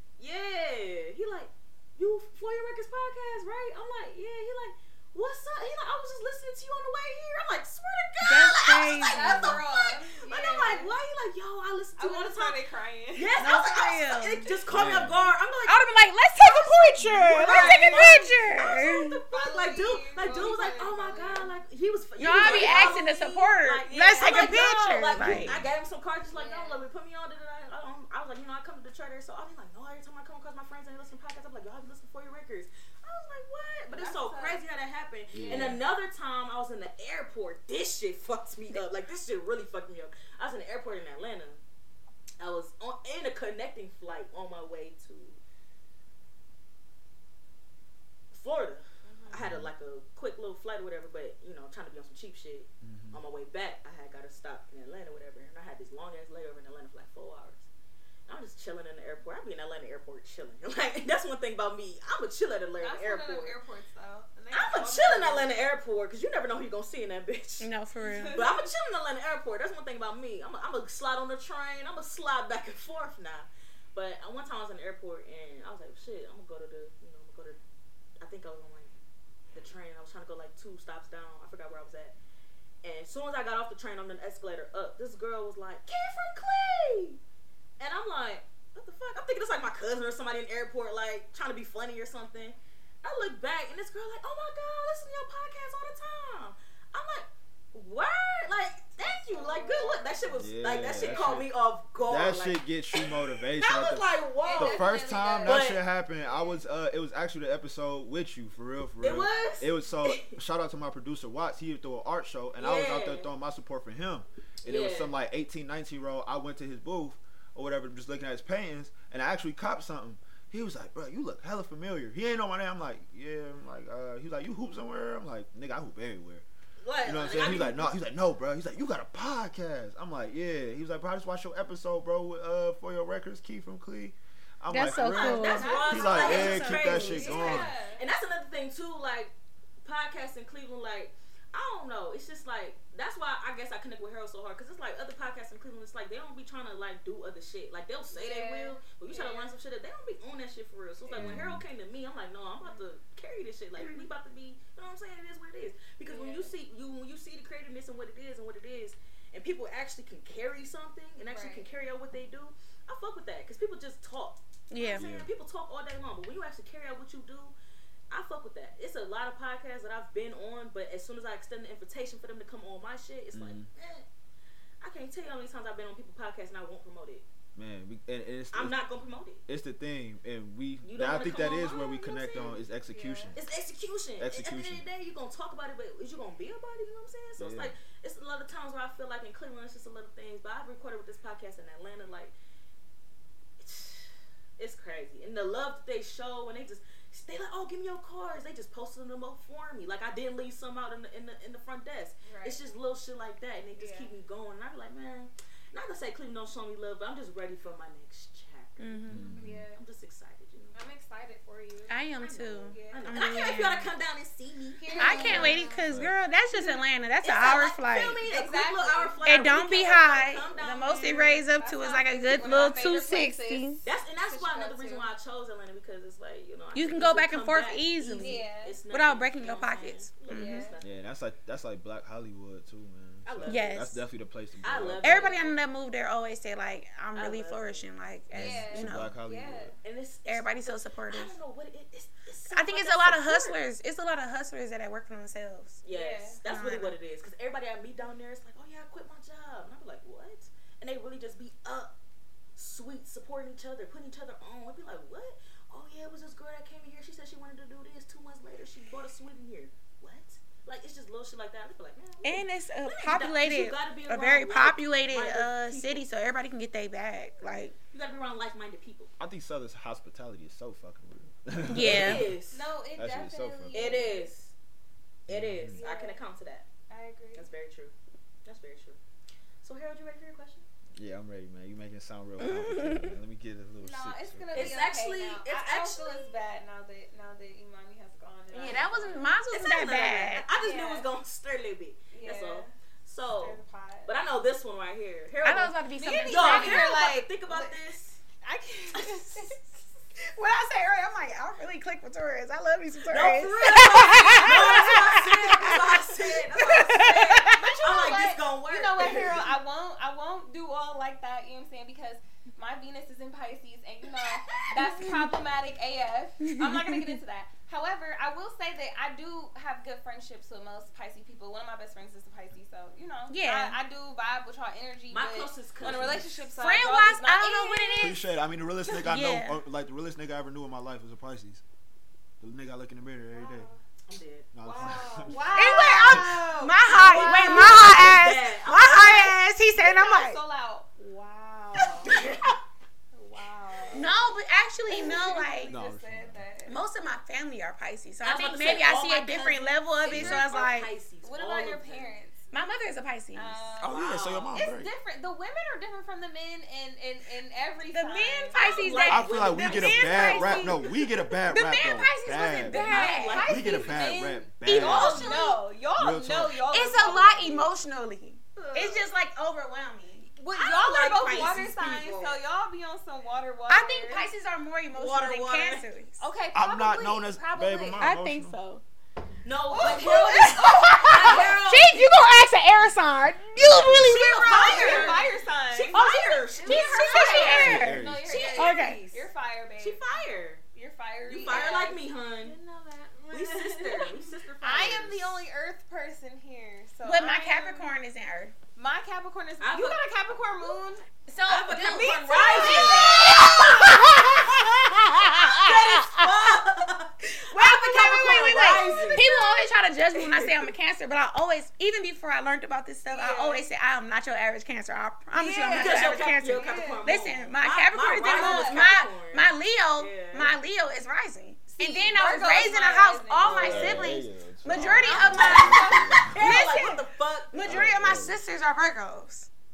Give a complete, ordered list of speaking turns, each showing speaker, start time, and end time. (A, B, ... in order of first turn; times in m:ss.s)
0:00.2-0:12.6 A
0:08.2-0:09.6 B
0:09.0-0:10.9 C
0:12.0-0:13.4 C
0:13.2-0:15.8 A
0:13.4-0:14.6 B
0:14.7-0:15.2 D
0:15.7-0:19.2 B
0:16.4-0:41.6 A
0:17.4-0:18.3 C
0:19.3-0:21.5 C
0:22.2-0:25.6 B
0:22.3-0:23.1 C
0:23.9-0:24.8 C
0:25.2-0:25.7 D
0:26.3-0:26.8 C
0:33.9-0:34.6 C
0:35.3-0:35.8 D
0:42.4-0:45.4 A
0:48.3-0:57.7 A
0:49.0-0:49.3 C
0:49.3-0:49.7 D
0:52.8-0:53.2 D
0:58.3-1:03.6 A
1:02.8-1:05.5 C
1:04.5-1:07.7 A
1:07.6-1:08.4 B
1:08.0-1:08.6 C
1:08.3-1:17.6 A
1:18.2-1:18.9 A
1:19.5-1:22.2 A
1:22.8-1:27.2 A
1:27.8-1:45.8 A
1:39.0-1:40.2 C
1:40.4-1:41.5 D
1:40.9-1:41.4 C
1:42.0-2:06.4 D
1:44.4-1:46.6 C
1:49.0-1:50.4 A
1:52.6-1:53.3 A
1:54.6-1:55.1 A
2:06.8-2:07.9 A
2:07.0-2:17.7 D
2:14.7-2:17.4 B
2:15.0-2:47.6 A
2:15.4-2:18.0 C
2:28.1-2:29.6 C
2:31.2-2:31.6 D
2:36.1-2:36.5 C
2:41.2-2:41.7 C
2:44.7-2:45.0 B
2:45.0-2:45.3 D
2:48.1-2:54.1 A
2:53.3-2:53.7 D
2:54.8-2:57.2 A
2:57.6-2:58.8 D
2:58.5-2:59.4 A
2:59.5-3:03.4 D
3:00.8-3:02.6 A
3:02.9-3:03.4 C
3:03.4-3:12.3 A
3:04.2-3:04.8 D
3:07.4-3:07.7 D
3:13.6-3:30.8 A
3:22.2-3:22.7 C
3:23.8-3:24.1 C
3:28.8-3:29.3 B
3:29.1-3:29.6 D
3:29.3-3:29.8 C
3:30.7-3:33.3 C
3:31.9-3:33.9 B
3:32.2-3:35.6 A
3:34.8-3:35.8 C
3:35.0-3:38.2 B
3:35.2-3:36.1 D
3:36.6-3:41.1 A
3:38.2-3:39.6 C
3:39.2-3:43.8 B
3:40.6-3:45.1 C
3:43.8-3:51.1 A
3:46.7-3:50.7 B
3:48.2-3:48.8 C
3:50.3-3:50.8 C
3:50.8-3:55.3 D
3:53.2-3:53.8 A
3:53.5-3:54.0 B
3:54.6-3:55.5 A
3:55.0-3:59.2 B
3:57.2-3:57.9 A
3:58.3-3:59.7 C
3:58.3-3:59.8 D
3:59.8-4:03.6 A
4:00.3-4:01.4 B
4:02.5-4:05.8 B
4:05.8-4:11.9 A
4:05.9-4:06.4 C
4:06.4-4:07.0 B
4:12.6-4:26.0 A
4:22.2-4:27.8 B
4:27.9-4:29.1 A
4:29.2-4:32.3 D
4:31.7-4:32.3 B
4:31.8-4:32.6 A
4:32.5-4:34.3 C
4:33.0-4:34.0 D
4:33.7-4:34.5 A
4:35.3-4:35.8 D
4:35.3-4:36.7 A
4:35.7-4:36.2 C
4:36.9-4:37.5 C
4:37.3-4:37.9 A
4:38.4-4:39.0 A
4:39.6-4:40.7 A
4:41.0-4:44.8 D
4:42.4-4:43.1 B
4:43.8-4:49.4 C
4:44.5-4:46.4 A
4:48.5-4:50.4 B
4:49.5-4:58.2 A
4:50.6-4:51.1 C
4:52.1-4:52.7 C
4:53.3-4:54.1 C
4:55.4-4:57.0 B
4:56.0-4:57.8 C
4:58.4-4:59.8 C
4:58.9-4:59.5 A
5:00.3-5:05.9 B
5:03.0-5:09.4 A
5:06.6-5:07.7 B
5:07.0-5:28.2 C
5:14.8-5:15.3 B
5:16.5-5:17.2 B
5:23.3-5:23.8 B
5:25.1-5:26.3 A
5:25.8-5:26.3 D
5:26.6-5:28.2 B
5:28.0-5:31.6 D
5:29.0-5:29.6 B
5:32.4-5:33.7 D
5:33.3-5:33.8 C
5:34.1-5:35.0 A
5:34.5-5:35.6 D
5:34.6-5:37.9 C
5:35.5-5:40.4 B
5:36.9-5:39.4 A
5:39.7-5:42.2 C
5:42.1-5:42.5 A
5:43.1-5:44.2 C
5:43.9-5:45.7 B
5:44.9-5:46.8 C
5:45.7-5:46.5 D
5:46.7-5:50.9 B
5:48.2-5:52.1 A
5:50.1-5:50.4 D
5:51.2-5:52.5 C
5:52.5-5:53.6 B
5:53.3-5:59.0 C
5:53.8-5:54.9 D
5:53.8-5:54.6 A
5:57.9-6:00.9 B
5:58.5-6:00.9 A
5:59.1-6:05.4 D
6:01.4-6:03.5 B
6:02.7-6:07.7 C
6:02.7-6:04.0 A
6:04.7-6:05.5 A
6:04.8-6:05.6 B
6:06.0-6:06.7 D
6:06.7-6:10.3 B
6:08.6-6:09.1 C
6:10.4-6:14.3 C
6:10.5-6:12.4 A
6:13.7-6:16.2 B
6:15.0-6:15.9 A
6:16.2-6:18.1 C
6:16.5-6:18.6 D
6:18.0-6:18.8 B
6:19.4-6:22.1 A
6:19.7-6:21.5 C
6:19.9-6:25.2 B
6:23.6-6:24.2 D
6:23.8-6:29.3 A
6:24.4-6:30.2 C
6:25.9-6:29.0 B
6:27.4-6:28.3 D
6:29.8-6:30.6 A
6:30.7-6:37.9 C
6:31.3-6:32.6 A
6:33.2-6:35.4 A
6:37.0-6:38.6 B
6:38.8-6:41.0 C
6:39.6-6:40.0 A
6:41.3-6:46.3 B
6:41.4-6:49.3 A
6:42.3-6:44.0 C
6:47.4-7:09.5 B
6:49.2-6:49.5 C
6:50.1-6:50.7 A
6:53.1-6:53.6 C
6:55.4-6:57.2 C
6:55.4-7:00.6 A
6:58.2-6:59.0 C
7:01.8-7:04.1 C
7:03.4-7:03.9 A
7:03.5-7:06.4 D
7:04.7-7:06.3 C
7:05.1-7:07.9 A
7:07.6-7:08.4 D